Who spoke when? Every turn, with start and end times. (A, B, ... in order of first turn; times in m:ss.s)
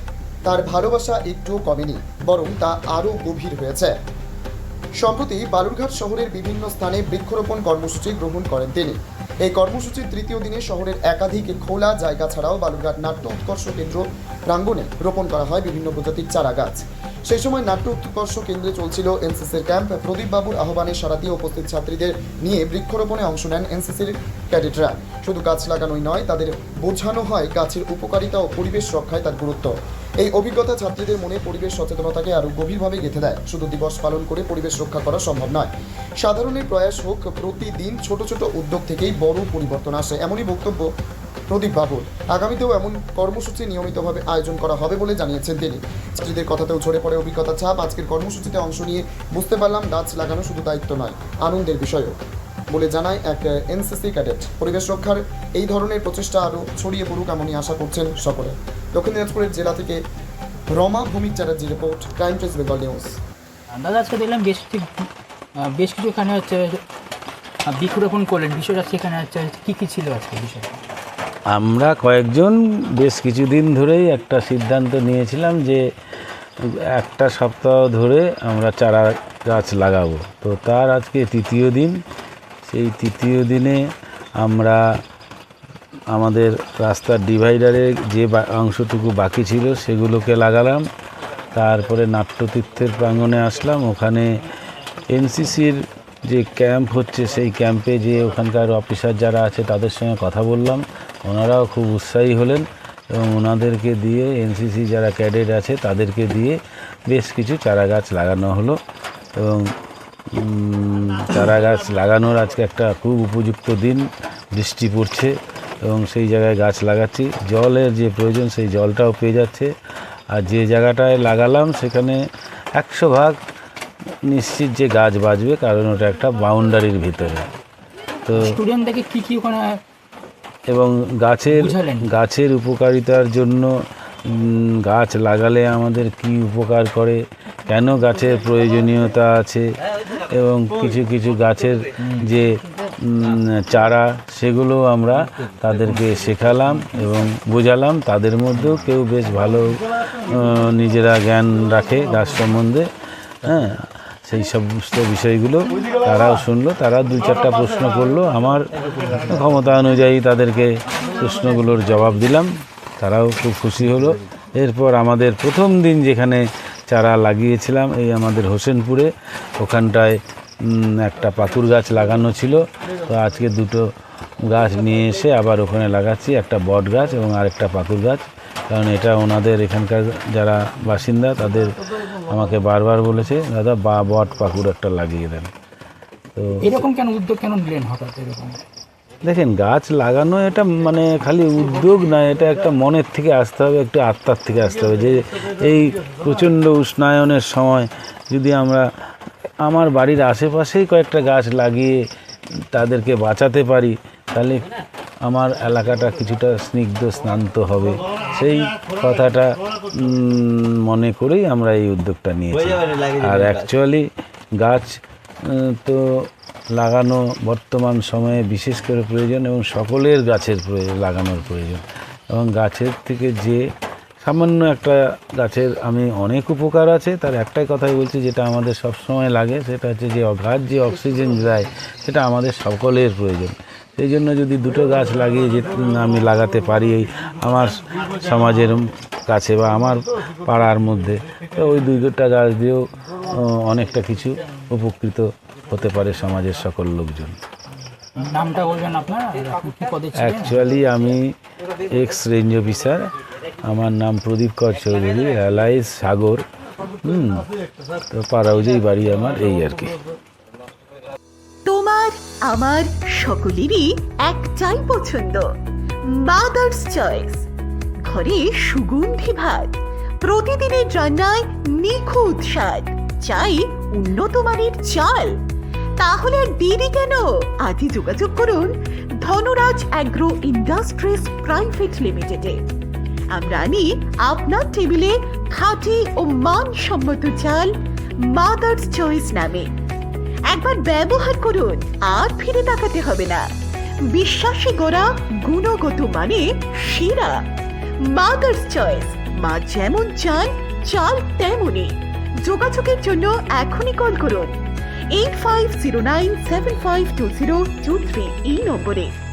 0:00.4-0:04.0 A
0:05.0-0:40.9 A
0:41.5-0:52.2 A
0:52.7-1:00.0 A
1:00.7-1:03.1 A
1:03.7-1:06.8 B
1:07.6-1:10.8 B
1:11.5-1:15.8 C
1:16.6-1:22.0 C
1:22.6-1:23.8 C
1:24.4-1:24.8 C
1:26.1-1:30.9 C
1:31.5-1:34.3 C
1:35.1-1:46.6 C
1:47.1-1:48.8 C
1:49.3-1:49.7 C
1:50.3-1:59.7 C
2:00.3-2:02.2 C
2:02.8-2:03.4 C
2:04.3-2:07.5 C
2:08.2-2:08.5 C
2:08.3-2:09.8 B
2:10.7-2:32.9 C
2:11.5-2:12.1 B
2:33.4-2:38.6 C
2:39.2-2:53.8 C
2:54.4-3:05.5 C
3:06.3-3:06.6 C
3:06.6-3:08.6 B
3:09.2-3:18.8 C
3:19.6-3:22.0 C
3:22.7-3:24.7 C
3:25.2-3:34.0 C
3:34.6-3:43.6 C
3:44.2-4:07.4 C
4:08.2-4:10.6 B
4:10.2-4:13.1 C
4:13.6-4:16.4 C
4:17.0-4:17.5 C
4:18.1-4:20.0 C
4:21.6-4:25.5 D
4:26.0-4:27.4 D
4:28.0-4:35.4 D
4:36.0-4:42.6 D
4:43.3-4:49.7 D
4:50.5-4:53.5 D
4:54.0-4:57.4 D
4:58.0-5:04.6 D
5:05.1-5:09.2 D